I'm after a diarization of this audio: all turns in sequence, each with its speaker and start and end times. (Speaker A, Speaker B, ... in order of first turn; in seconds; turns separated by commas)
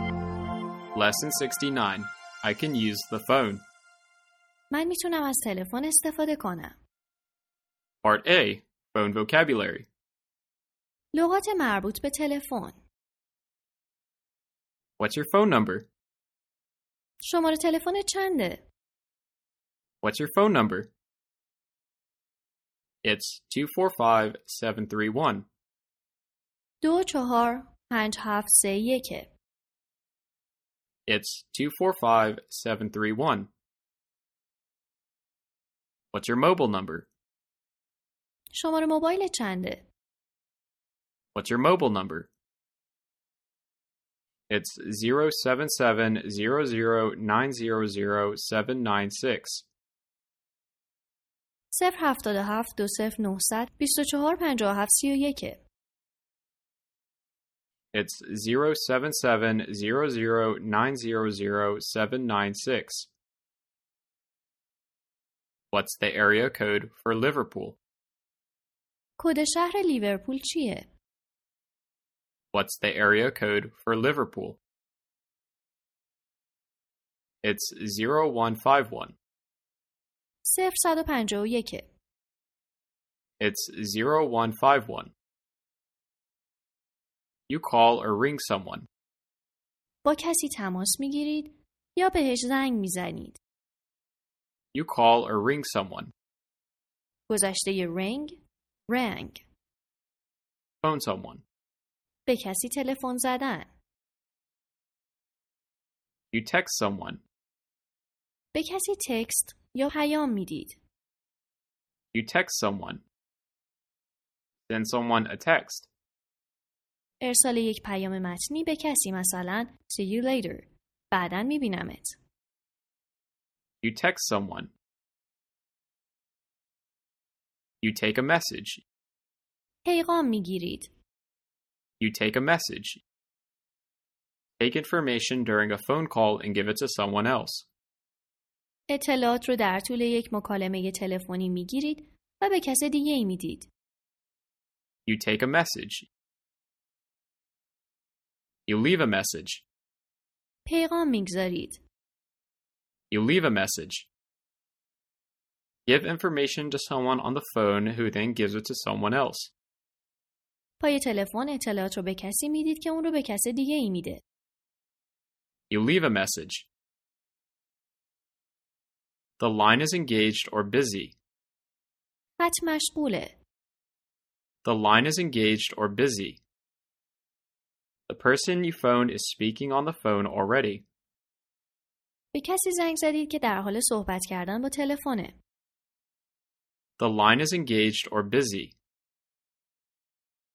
Speaker A: 0.9-3.6, Speaker B: 4.7-6.8, Speaker A: 8.0-9.9, Speaker B: 11.1-12.8, Speaker A: 15.0-15.9, Speaker B: 17.2-18.6, Speaker A: 20.0-20.9, Speaker A: 23.0-25.5, Speaker B: 26.8-29.3, Speaker A: 31.1-33.5, Speaker A: 36.1-37.1, Speaker B: 38.5-39.9, Speaker A: 41.4-42.3, Speaker A: 44.5-49.7, Speaker B: 51.7-55.6, Speaker A: 57.9-63.1, Speaker A: 65.7-67.8, Speaker B: 69.2-70.9, Speaker A: 72.5-74.6, Speaker A: 77.4-79.2, Speaker B: 80.4-81.9, Speaker A: 83.4-85.1, Speaker A: 87.5-88.9, Speaker B: 90.0-93.4, Speaker A: 94.7-96.1, Speaker B: 97.3-99.5, Speaker A: 100.8-101.4, Speaker B: 102.3-103.7, Speaker A: 106.3-107.2, Speaker B: 108.5-110.8, Speaker A: 112.1-113.0, Speaker A: 114.7-115.9, Speaker B: 117.2-122.2, Speaker A: 123.8-124.7, Speaker A: 127.8-128.8, Speaker B: 129.8-130.9, Speaker A: 132.0-133.0, Speaker A: 134.6-137.7, Speaker B: 138.9-143.7, Speaker A: 145.1-146.1, Speaker A: 148.7-149.7, Speaker B: 150.7-151.8, Speaker A: 153.1-154.1, Speaker A: 155.9-159.5, Speaker B: 160.8-164.2, Speaker A: 165.7-166.7, Speaker A: 169.4-171.2, Speaker B: 172.4-173.4, Speaker A: 174.6-176.4, Speaker A: 178.1-180.8, Speaker B: 182.3-185.4, Speaker A: 187.0-188.8